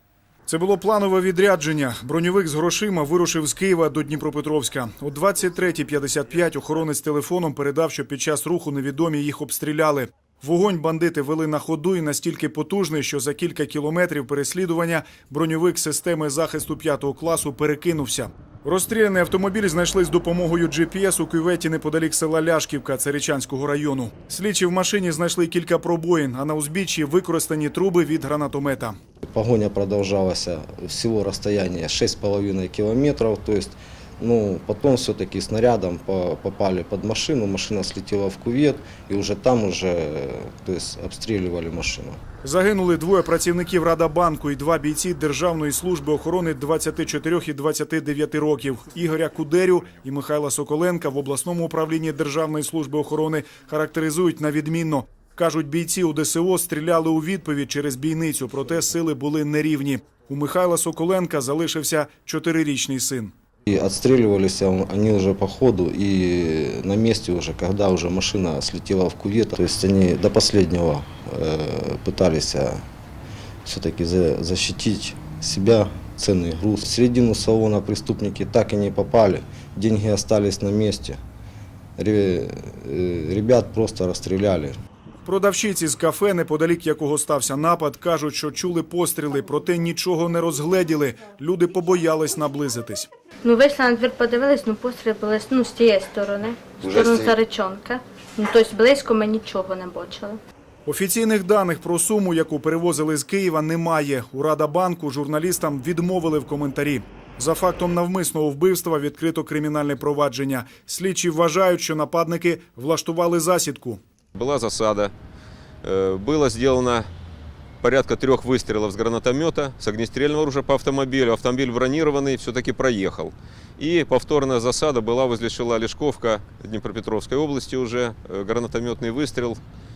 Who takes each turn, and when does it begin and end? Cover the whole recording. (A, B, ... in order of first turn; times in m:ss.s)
0:00.5-0:29.0 A
0:29.3-0:42.2 B
0:42.4-1:03.3 A
1:03.7-1:12.8 B
1:13.6-1:21.2 B
1:22.0-1:24.8 B
1:25.2-1:33.1 A
1:33.4-1:40.4 C
1:36.8-1:37.3 B
1:40.9-1:54.0 A
1:54.4-1:55.1 D
1:55.8-1:57.1 D
1:57.8-2:09.6 D